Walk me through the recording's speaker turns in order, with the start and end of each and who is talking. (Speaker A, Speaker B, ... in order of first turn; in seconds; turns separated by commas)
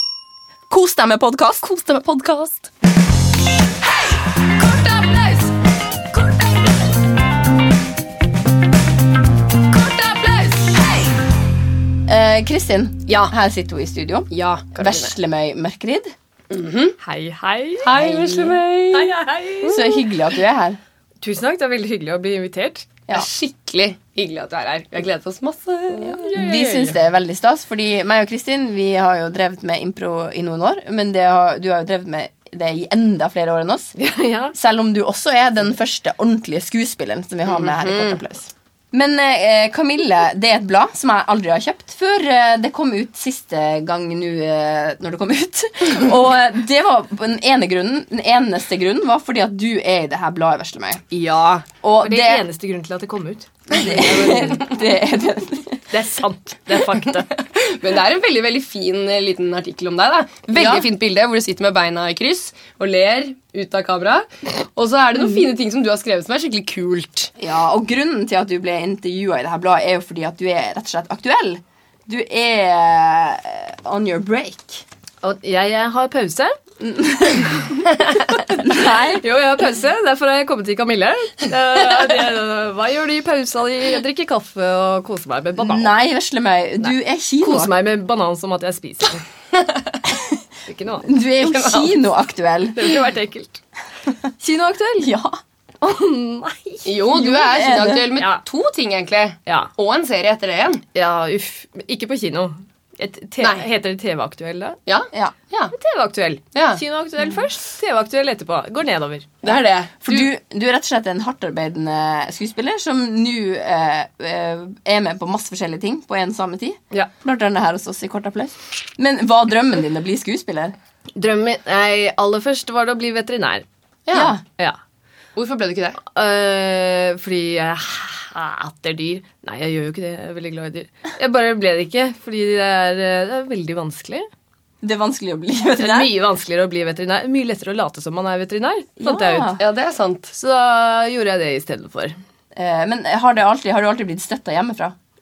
Speaker A: 0.7-1.6, Speaker B: 1.6-2.7, Speaker B: 4.6-5.5, Speaker B: 9.7-11.1, Speaker A: 12.1-16.1, Speaker B: 13.1-13.3, Speaker B: 14.3-15.2, Speaker B: 16.5-17.0, Speaker C: 17.0-18.4, Speaker B: 17.8-20.0, Speaker A: 18.0-18.5, Speaker C: 18.9-20.0, Speaker A: 19.7-20.8, Speaker C: 21.2-22.9, Speaker B: 23.1-26.3, Speaker A: 26.0-34.0, Speaker C: 26.0-26.9, Speaker C: 34.0-34.5, Speaker A: 34.5-51.0, Speaker B: 37.5-38.2, Speaker B: 51.1-51.7, Speaker A: 51.8-52.4, Speaker C: 52.0-54.7, Speaker A: 53.7-55.9, Speaker C: 55.9-57.3, Speaker B: 57.0-67.3, Speaker A: 60.5-60.9, Speaker A: 67.4-74.8, Speaker C: 75.2-76.6, Speaker A: 76.8-77.7, Speaker C: 78.3-85.9, Speaker A: 78.5-79.2, Speaker A: 85.6-87.7, Speaker C: 86.8-89.2, Speaker B: 89.5-90.0, Speaker A: 90.1-90.4, Speaker C: 90.7-91.1, Speaker A: 91.0-93.0, Speaker B: 91.4-92.0, Speaker C: 92.8-93.6, Speaker C: 94.4-95.1, Speaker A: 95.0-95.4, Speaker C: 95.8-97.0, Speaker B: 96.9-100.8, Speaker A: 97.1-98.1, Speaker C: 98.2-98.4, Speaker C: 101.0-104.8, Speaker B: 104.9-105.7, Speaker C: 105.7-109.4, Speaker B: 106.5-106.8, Speaker B: 109.4-110.3, Speaker A: 110.0-120.8, Speaker C: 121.2-123.7, Speaker B: 124.1-124.3, Speaker A: 124.1-124.4, Speaker B: 125.4-126.0, Speaker C: 126.0-134.3, Speaker A: 134.8-136.2, Speaker C: 135.8-139.6, Speaker A: 139.0-139.6, Speaker B: 139.6-140.3, Speaker C: 140.3-142.2, Speaker A: 142.5-145.0